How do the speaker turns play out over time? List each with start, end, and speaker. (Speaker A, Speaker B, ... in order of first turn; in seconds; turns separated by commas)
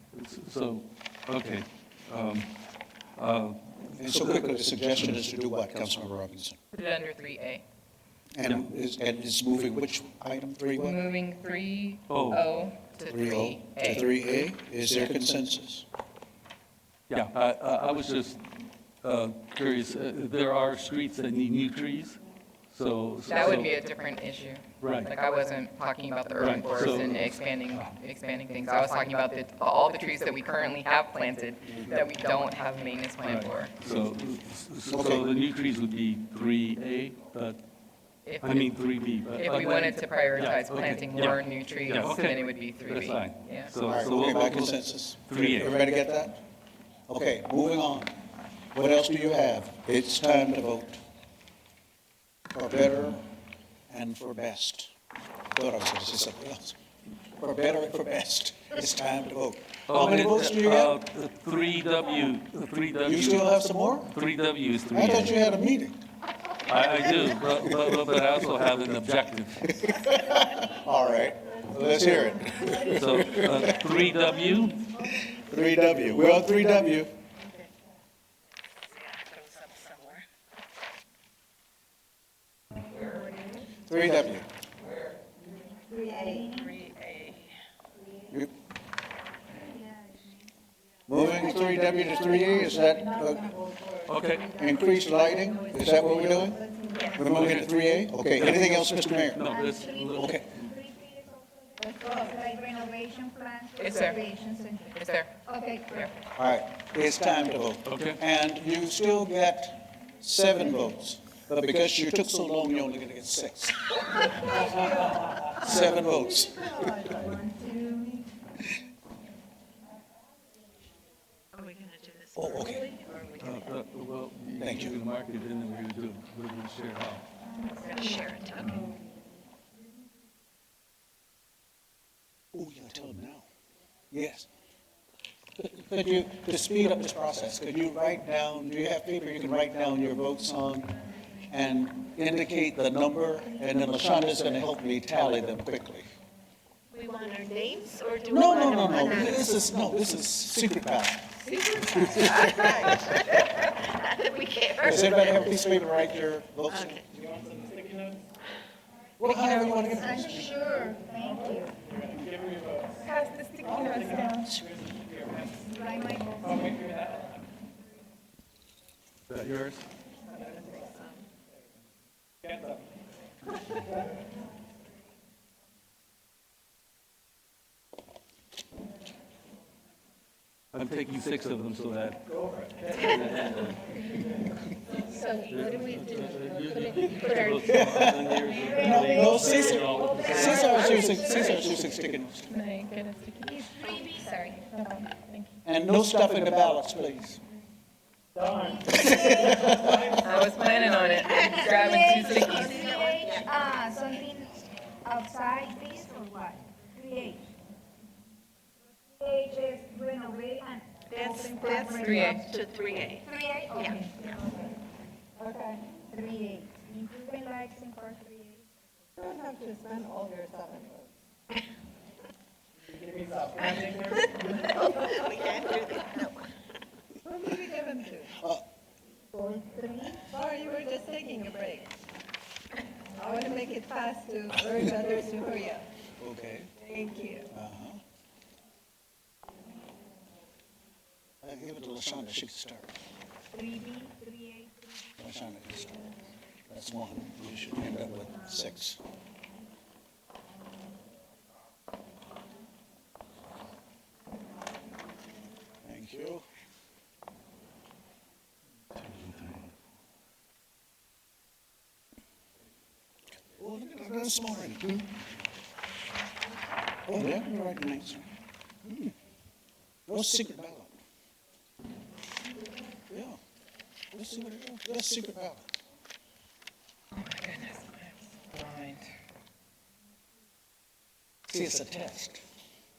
Speaker A: 0.1-2.5, Speaker A: 3.1-4.2, Speaker B: 4.0-6.6, Speaker C: 6.7-7.6, Speaker B: 8.3-11.0, Speaker C: 10.8-14.2, Speaker A: 12.1-12.4, Speaker B: 13.1-15.8, Speaker A: 17.1-23.7, Speaker C: 23.3-33.7, Speaker A: 24.8-25.1, Speaker A: 26.4-27.9, Speaker A: 33.2-37.6, Speaker B: 34.9-35.2, Speaker C: 38.2-38.7, Speaker A: 38.4-45.8, Speaker C: 39.4-43.7, Speaker B: 43.8-46.4, Speaker B: 47.1-48.2, Speaker B: 48.7-51.0, Speaker B: 52.5-53.3, Speaker B: 53.9-54.9, Speaker B: 55.5-56.8, Speaker B: 57.4-61.0, Speaker A: 59.9-65.4, Speaker B: 63.0-64.1, Speaker B: 64.9-66.0, Speaker A: 66.6-69.8, Speaker B: 69.6-73.8, Speaker A: 72.8-74.9, Speaker B: 75.3-77.1, Speaker D: 79.0-80.2, Speaker E: 82.9-83.7, Speaker B: 83.9-84.5, Speaker E: 85.9-86.8, Speaker D: 86.5-87.2, Speaker F: 86.9-87.3, Speaker E: 89.5-90.4, Speaker B: 91.1-93.4, Speaker E: 91.2-97.6, Speaker A: 94.1-94.5, Speaker B: 94.5-96.6, Speaker D: 96.9-97.2, Speaker B: 97.1-99.5, Speaker A: 97.2-100.7, Speaker E: 99.4-106.1, Speaker B: 100.1-100.5, Speaker C: 103.8-104.2, Speaker C: 104.9-105.3, Speaker B: 106.4-116.7, Speaker A: 107.8-108.2, Speaker E: 116.4-118.2, Speaker D: 121.5-123.7, Speaker B: 122.3-122.9, Speaker F: 122.9-123.3, Speaker A: 123.4-127.2, Speaker B: 124.6-125.0, Speaker E: 127.5-128.9, Speaker D: 127.8-128.7, Speaker F: 128.1-128.4, Speaker B: 132.5-133.5, Speaker B: 134.1-134.5, Speaker B: 135.6-141.0, Speaker B: 141.5-146.1, Speaker D: 146.9-149.5, Speaker F: 147.2-147.7, Speaker B: 148.3-151.3, Speaker F: 148.7-149.1, Speaker C: 151.4-152.8, Speaker D: 152.2-155.2, Speaker B: 154.8-157.1, Speaker D: 156.7-157.1, Speaker B: 159.2-160.6, Speaker C: 159.3-159.7, Speaker E: 159.8-161.7, Speaker C: 163.0-164.7, Speaker E: 165.5-166.9, Speaker A: 169.3-169.9, Speaker D: 170.5-171.0, Speaker A: 180.7-184.0, Speaker C: 185.0-188.0, Speaker A: 185.5-191.5, Speaker B: 187.6-192.5, Speaker E: 188.5-191.8, Speaker C: 192.5-195.5, Speaker E: 193.5-194.6, Speaker B: 195.7-197.4, Speaker E: 198.5-199.6, Speaker B: 198.9-200.1, Speaker C: 199.9-203.1, Speaker E: 201.3-207.5, Speaker F: 203.1-203.4, Speaker E: 209.2-212.4, Speaker F: 211.1-213.2, Speaker D: 211.2-213.2, Speaker C: 211.9-212.5, Speaker E: 213.2-214.4, Speaker F: 215.4-215.8, Speaker E: 215.4-218.7, Speaker F: 219.2-221.1, Speaker F: 223.0-226.3, Speaker D: 224.6-226.4, Speaker F: 227.3-228.3, Speaker B: 228.2-228.6, Speaker E: 229.3-230.2, Speaker F: 230.3-231.8, Speaker D: 231.3-231.8, Speaker F: 233.2-235.8, Speaker B: 236.2-236.7, Speaker F: 236.8-237.4, Speaker B: 237.5-238.0, Speaker B: 241.4-242.9, Speaker E: 243.5-244.7, Speaker B: 245.2-246.2, Speaker B: 246.7-249.0, Speaker B: 255.8-256.4, Speaker A: 259.1-259.6, Speaker B: 263.6-265.2, Speaker B: 267.1-268.3, Speaker B: 268.8-269.1, Speaker B: 270.1-270.9, Speaker B: 273.1-273.4, Speaker B: 274.1-275.7, Speaker C: 277.1-279.1, Speaker B: 281.5-282.4